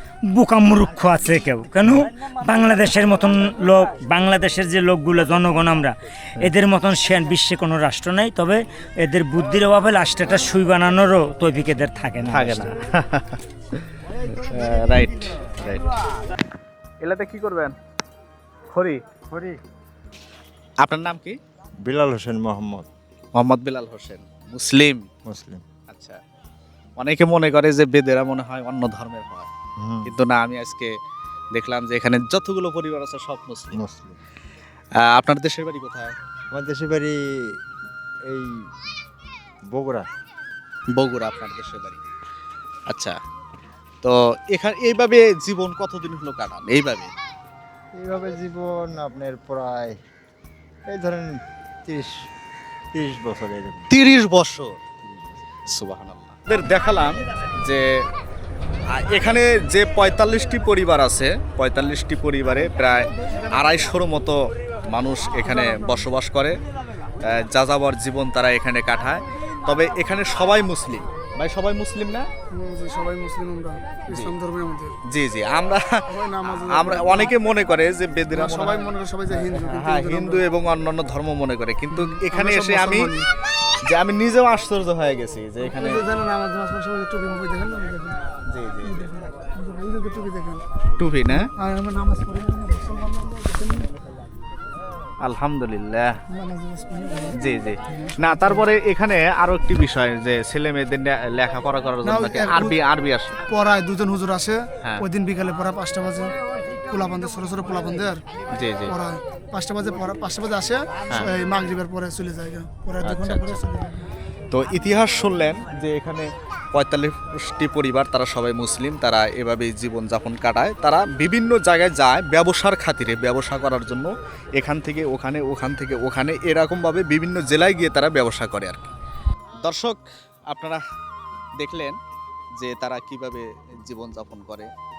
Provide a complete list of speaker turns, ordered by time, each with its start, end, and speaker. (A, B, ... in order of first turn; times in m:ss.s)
0:00.3-0:12.8 A
0:12.3-0:15.8 B
0:17.0-0:17.7 B
0:18.7-0:19.0 B
0:20.8-0:21.4 B
0:21.8-0:22.9 C
0:23.3-0:25.1 B
0:25.2-0:25.6 C
0:25.9-0:26.2 B
0:27.0-0:29.5 B
0:29.8-0:30.1 C
0:30.0-0:30.9 B
0:31.5-0:33.8 B
0:33.7-0:34.2 C
0:35.0-0:36.1 B
0:36.5-0:37.2 C
0:38.3-0:38.6 C
0:39.7-0:40.0 C
0:40.9-0:42.0 B
0:42.9-0:43.2 B
0:44.0-0:47.1 B
0:48.0-0:50.0 C
0:50.9-0:52.2 C
0:52.9-0:53.8 C
0:53.9-0:54.7 B
0:55.7-0:57.8 B
0:58.9-1:04.4 B
1:04.9-1:06.5 B
1:05.4-1:06.0 D
1:07.2-1:12.3 B
1:12.5-1:14.9 D
1:14.1-1:14.4 B
1:15.1-1:23.1 B
1:16.1-1:17.3 D
1:18.3-1:20.4 D
1:21.9-1:23.2 D
1:23.9-1:26.1 B
1:25.6-1:28.1 D
1:28.5-1:29.1 B
1:28.8-1:30.6 D
1:31.0-1:31.5 B
1:31.6-1:33.9 D
1:35.2-1:36.1 B
1:36.3-1:37.3 D
1:37.4-1:43.3 B
1:38.2-1:38.6 D
1:42.0-1:42.7 D
1:43.5-1:46.3 D
1:46.9-1:48.2 D
1:48.5-1:49.0 B
1:48.9-1:54.1 D
1:53.0-1:53.6 B
1:54.5-2:08.9 B
2:09.6-2:10.8 B
2:11.6-2:12.0 B
2:12.6-2:14.7 B